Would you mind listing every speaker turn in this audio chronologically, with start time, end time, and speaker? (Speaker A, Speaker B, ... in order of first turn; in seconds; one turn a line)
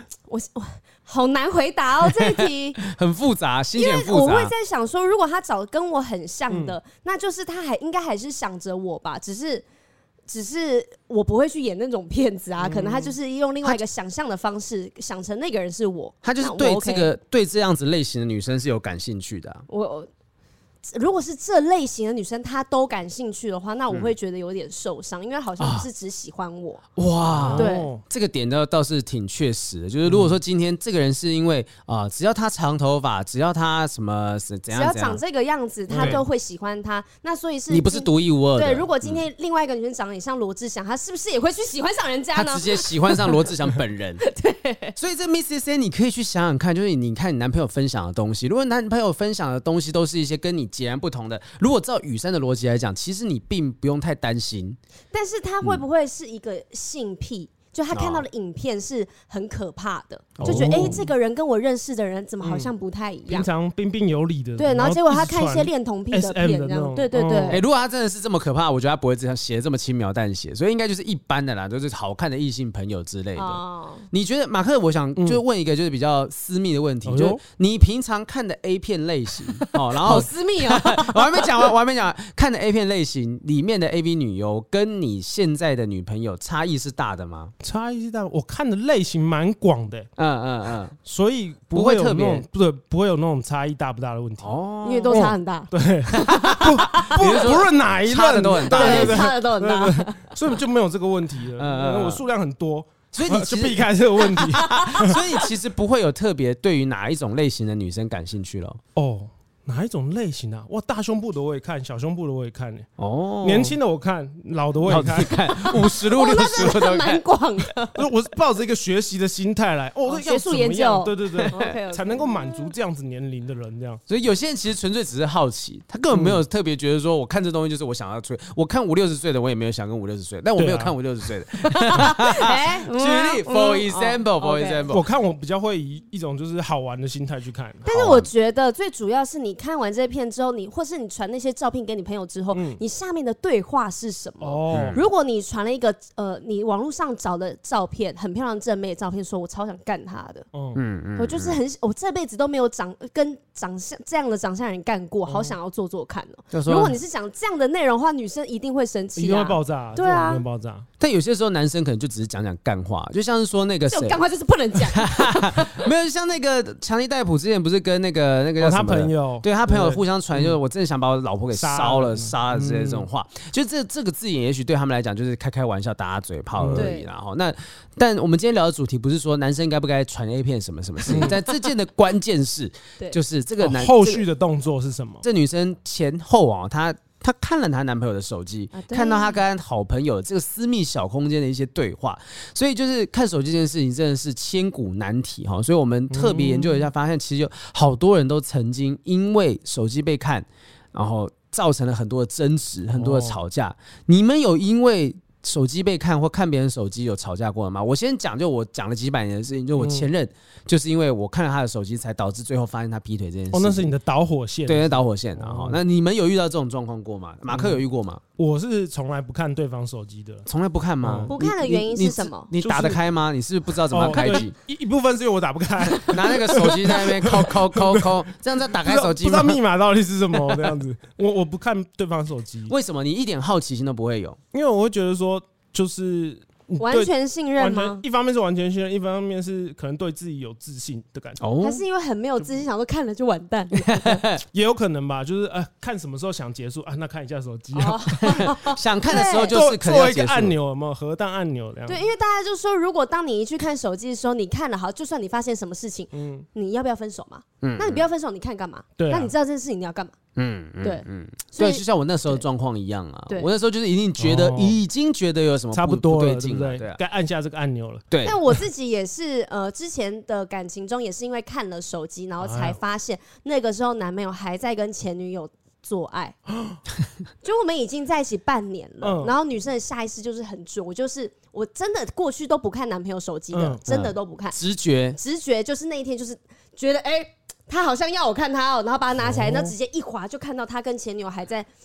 Speaker A: 0.3-2.8
Speaker B: 2.1-4.5
Speaker A: 3.7-9.6
Speaker C: 6.5-6.8
Speaker A: 10.3-17.1
Speaker B: 12.6-13.1
Speaker B: 16.2-19.6
Speaker A: 19.7-20.1
Speaker A: 20.8-26.8
Speaker B: 25.6-25.9
Speaker B: 26.9-35.2
Speaker C: 27.3-28.0
Speaker A: 27.6-27.9
Speaker C: 30.0-30.4
Speaker A: 34.7-43.5
Speaker C: 35.9-36.2
Speaker B: 36.0-36.2
Speaker B: 37.7-39.2
Speaker B: 42.3-44.2
Speaker A: 44.2-45.0
Speaker B: 45.0-54.8
Speaker A: 55.1-63.5
Speaker B: 57.9-58.2
Speaker B: 60.4-61.0
Speaker C: 60.4-61.1
Speaker C: 62.4-62.7
Speaker C: 63.3-67.6
Speaker A: 64.6-67.6
Speaker B: 67.5-87.5
Speaker A: 73.3-74.1
Speaker C: 75.2-75.4
Speaker C: 77.0-77.4
Speaker A: 80.0-81.7
Speaker C: 87.6-90.1
Speaker B: 90.2-91.0
Speaker C: 91.0-94.5
Speaker B: 91.7-92.4
Speaker B: 94.4-95.3
Speaker A: 94.8-97.5
Speaker C: 95.1-105.2
Speaker B: 96.1-99.2
Speaker A: 98.7-100.3
Speaker B: 101.6-102.2
Speaker B: 103.1-108.8
Speaker A: 104.3-105.2
Speaker C: 108.9-112.9
Speaker B: 113.0-113.8
Speaker C: 113.4-115.3
Speaker B: 114.8-117.2
Speaker A: 115.4-118.1
Speaker C: 117.9-124.0
Speaker A: 120.0-122.7
Speaker B: 121.3-121.7
Speaker B: 124.1-135.0
Speaker C: 126.1-126.4
Speaker C: 130.6-130.9
Speaker A: 131.7-134.9
Speaker C: 134.9-137.9
Speaker A: 137.8-150.5
Speaker B: 137.9-138.3
Speaker C: 142.5-142.8
Speaker C: 144.4-145.0
Speaker B: 144.7-145.0
Speaker C: 150.5-150.8
Speaker B: 150.8-151.6
Speaker A: 151.2-160.4
Speaker C: 155.3-155.6
Speaker B: 156.5-157.0
Speaker C: 159.2-160.9
Speaker B: 161.0-164.2
Speaker A: 163.9-165.9
Speaker B: 164.9-184.2
Speaker C: 168.6-170.6
Speaker C: 171.5-173.1
Speaker C: 176.6-176.9
Speaker A: 176.7-177.1
Speaker C: 181.1-181.3
Speaker A: 181.2-181.5
Speaker C: 183.6-185.2
Speaker B: 185.2-213.9
Speaker A: 188.7-189.4
Speaker C: 196.1-196.9
Speaker C: 202.9-203.4
Speaker C: 209.8-210.1
Speaker C: 213.5-215.8
Speaker B: 214.7-218.2
Speaker C: 217.5-217.8
Speaker C: 218.4-220.4
Speaker B: 220.5-224.5
Speaker C: 221.0-221.3
Speaker A: 221.3-222.5
Speaker C: 222.6-223.0
Speaker C: 223.9-228.1
Speaker B: 225.9-229.6
Speaker C: 228.8-232.7
Speaker B: 232.7-234.4
Speaker C: 234.5-241.4
Speaker A: 236.8-238.0
Speaker B: 241.4-241.8
Speaker A: 241.6-244.2
Speaker B: 243.8-244.4
Speaker C: 244.5-248.5
Speaker A: 247.7-249.6
Speaker B: 248.2-250.5
Speaker C: 249.1-252.1
Speaker A: 251.9-260.1
Speaker C: 256.1-256.5
Speaker B: 257.6-258.0
Speaker C: 259.0-259.3
Speaker B: 260.4-267.0
Speaker A: 260.8-262.4
Speaker C: 264.2-264.8
Speaker C: 265.7-268.6
Speaker A: 268.2-276.4
Speaker C: 272.4-272.8
Speaker C: 276.5-276.8
Speaker A: 277.4-284.6
Speaker C: 279.0-279.3
Speaker C: 283.5-283.8
Speaker B: 283.9-285.2
Speaker A: 285.1-291.7
Speaker C: 289.2-289.7